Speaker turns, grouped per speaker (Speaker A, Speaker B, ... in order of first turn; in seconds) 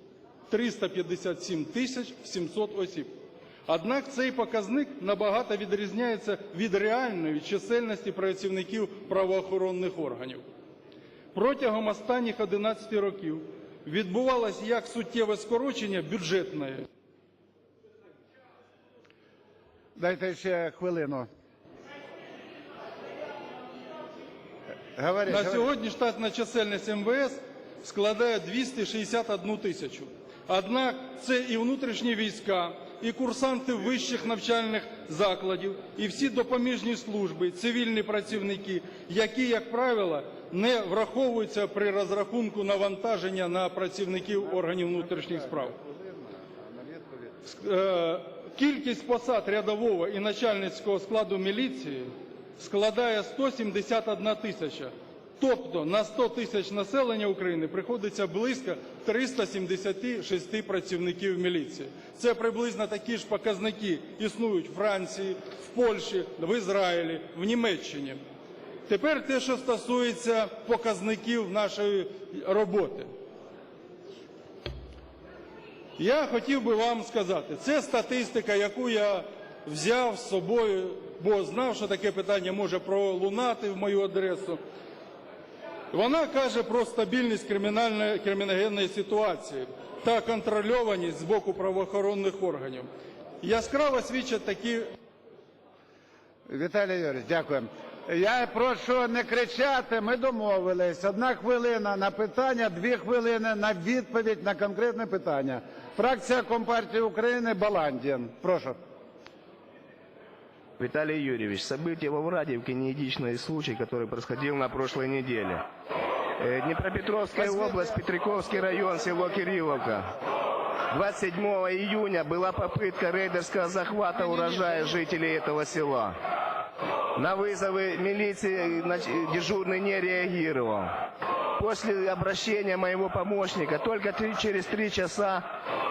Speaker A: 0.5-3.1, 3.7-10.4, 11.3-16.9, 25.3-45.8, 47.4-68.2, 68.9-73.1, 76.0-84.6, 85.9-92.9, 93.4-94.9
Speaker B: 20.0-21.3, 24.9-25.7, 44.9-47.3, 96.5-108.8
Speaker C: 110.8-115.7, 116.4-120.1, 120.9-126.2, 127.1-131.0, 131.5-135.4